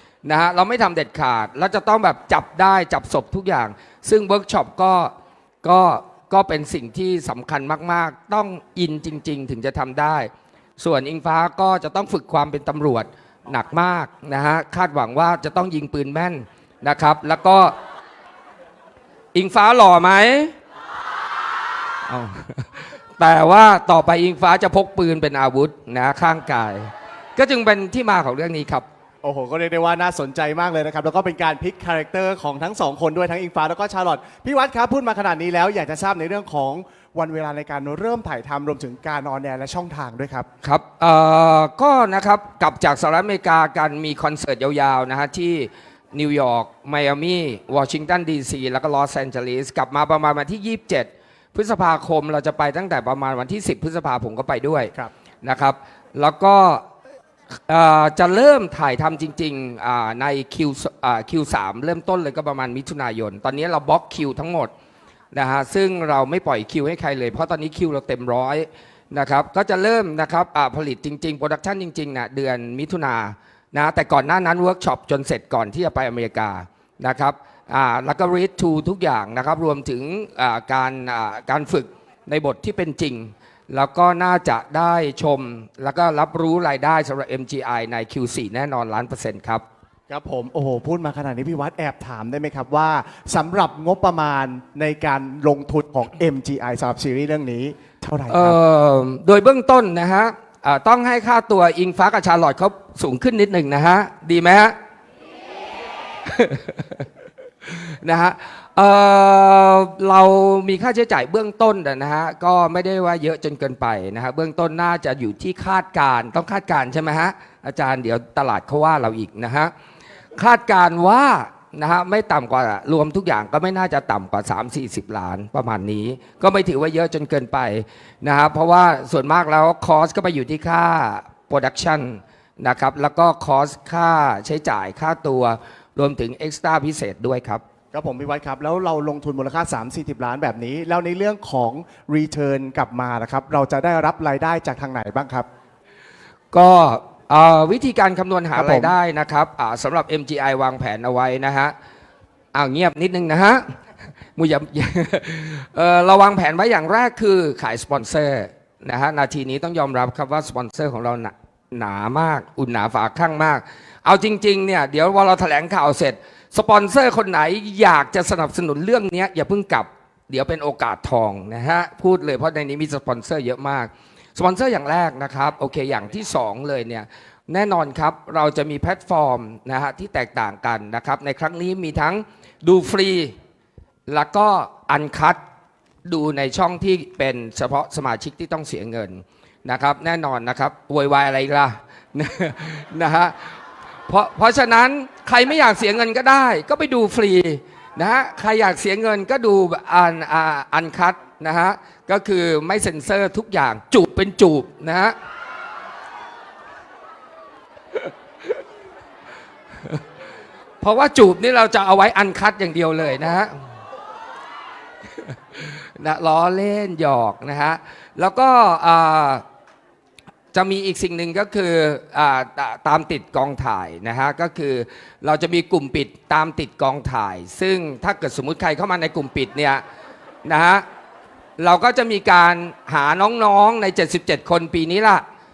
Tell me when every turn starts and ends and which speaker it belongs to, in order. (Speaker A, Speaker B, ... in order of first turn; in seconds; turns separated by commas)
Speaker A: 0.2-17.8, Speaker A: 19.3-20.5, Speaker A: 22.1-28.9, Speaker B: 29.2-40.5, Speaker A: 40.6-54.9, Speaker A: 55.4-56.8, Speaker A: 57.5-64.7, Speaker A: 65.3-89.6, Speaker B: 90.1-98.6, Speaker A: 98.3-104.8, Speaker A: 106.3-107.1, Speaker A: 107.7-119.7, Speaker A: 120.4-137.6, Speaker B: 137.9-145.5, Speaker A: 146.5-151.7, Speaker B: 148.6-148.9, Speaker A: 152.5-153.8, Speaker A: 154.4-183.3, Speaker A: 184.1-185.4, Speaker A: 186.1-193.6, Speaker A: 194.1-205.2, Speaker A: 210.8-213.5, Speaker A: 215.2-219.4, Speaker A: 220.5-229.8, Speaker A: 230.4-230.8, Speaker A: 231.6-235.2